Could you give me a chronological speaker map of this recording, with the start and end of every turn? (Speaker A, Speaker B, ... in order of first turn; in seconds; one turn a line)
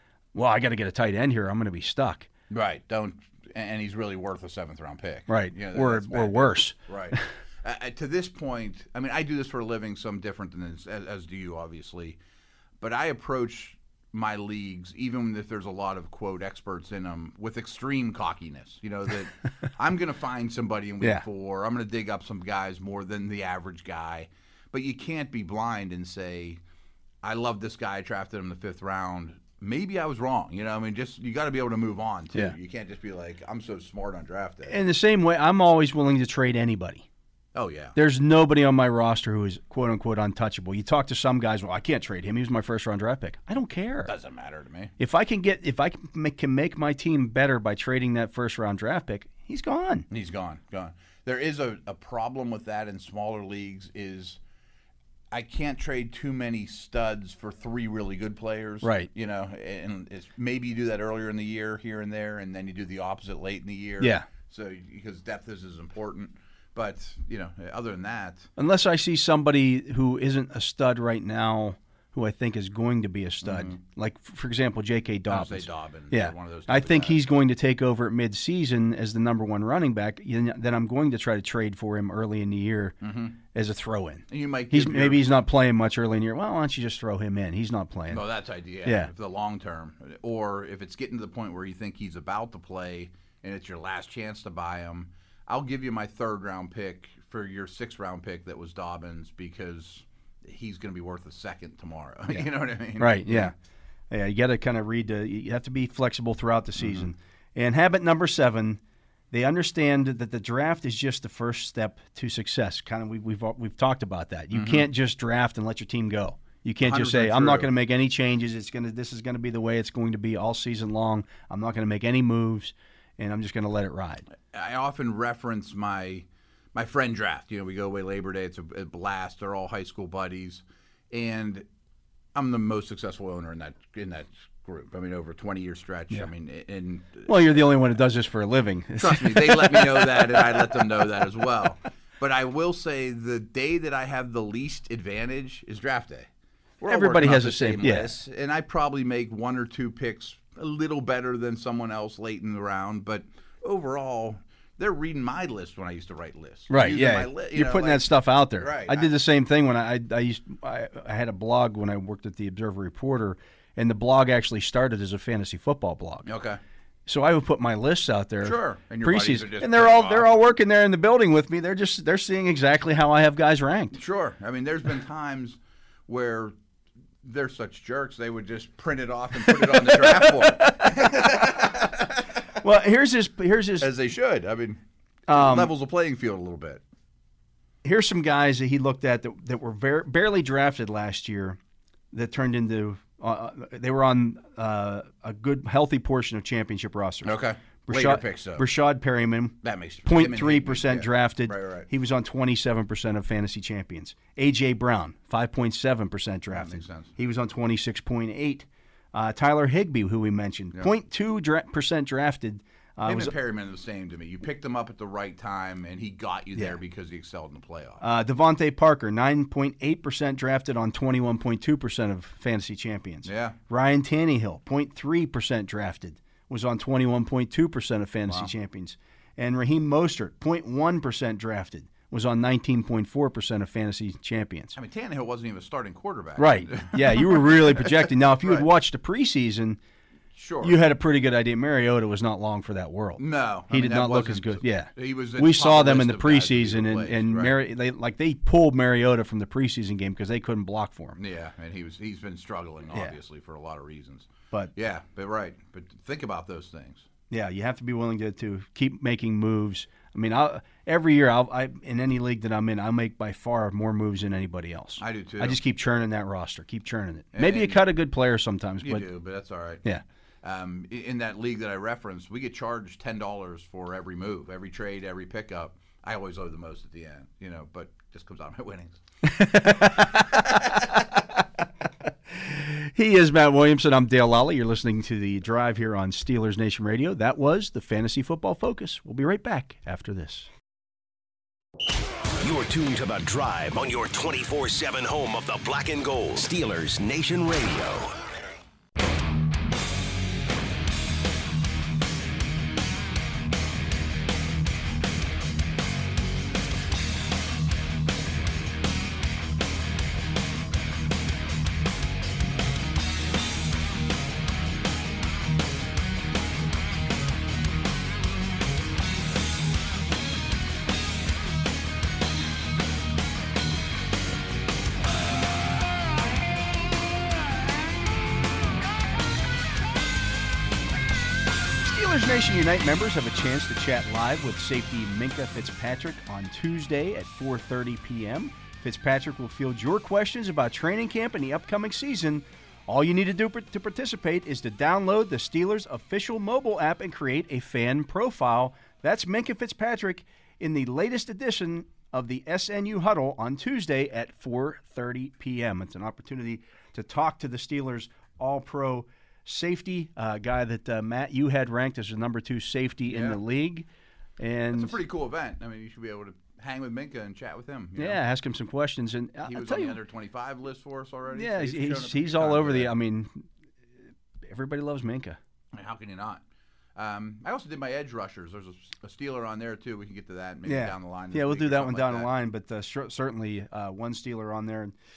Speaker A: 0.3-2.3
Speaker B: 2.5-12.2
Speaker A: 5.3-7.2
Speaker B: 12.8-26.6
Speaker B: 27.2-34.8
Speaker A: 34.7-37.1
Speaker B: 37.5-38.0
Speaker A: 38.0-44.1
Speaker B: 44.0-44.9
Speaker A: 45.0-50.1
Speaker B: 50.1-54.4
Speaker B: 55.3-68.5
Speaker A: 58.8-59.1
Speaker A: 64.0-64.3
Speaker A: 68.6-83.0
Speaker B: 73.4-73.8
Speaker B: 75.3-77.3
Speaker B: 83.0-83.3
Speaker A: 83.5-88.2
Speaker B: 84.3-85.3
Speaker B: 88.1-103.5
Speaker A: 88.8-89.1
Speaker A: 102.3-103.5
Speaker A: 104.1-108.8
Speaker B: 106.8-107.1
Speaker A: 109.3-124.3
Speaker B: 114.5-114.9
Speaker B: 116.8-117.7
Speaker B: 124.3-131.7
Speaker B: 132.3-137.6
Speaker A: 137.2-140.8
Speaker B: 139.0-146.3
Speaker B: 146.8-159.1
Speaker A: 146.8-148.2
Speaker A: 156.7-166.3
Speaker B: 166.2-166.6
Speaker A: 167.1-174.0
Speaker B: 168.4-170.3
Speaker B: 173.9-176.5
Speaker B: 177.2-182.4
Speaker A: 179.6-181.2
Speaker A: 182.6-183.9
Speaker B: 183.8-186.8
Speaker A: 185.3-185.7
Speaker A: 187.8-191.6
Speaker A: 192.1-197.3
Speaker B: 197.2-198.7
Speaker A: 197.9-213.3
Speaker B: 199.6-201.9
Speaker B: 206.5-207.1
Speaker B: 213.0-218.0
Speaker A: 218.0-234.8
Speaker B: 223.2-223.6
Speaker B: 234.7-238.7
Speaker A: 236.4-239.8
Speaker B: 240.3-240.8
Speaker A: 240.6-251.2
Speaker B: 243.2-247.6
Speaker B: 251.2-257.1
Speaker A: 257.3-269.1
Speaker B: 265.0-265.6
Speaker B: 267.3-267.8
Speaker B: 268.8-269.8
Speaker B: 270.4-279.0
Speaker A: 279.2-281.0
Speaker B: 279.8-280.6
Speaker A: 282.3-290.5
Speaker C: 292.4-298.1
Speaker A: 331.8-363.9
Speaker B: 363.1-363.4
Speaker A: 364.4-365.0
Speaker B: 364.7-368.2
Speaker A: 367.9-370.0
Speaker B: 369.4-372.9
Speaker A: 371.3-373.5
Speaker A: 374.4-375.4
Speaker B: 375.7-376.4
Speaker B: 376.9-382.3
Speaker A: 380.6-384.9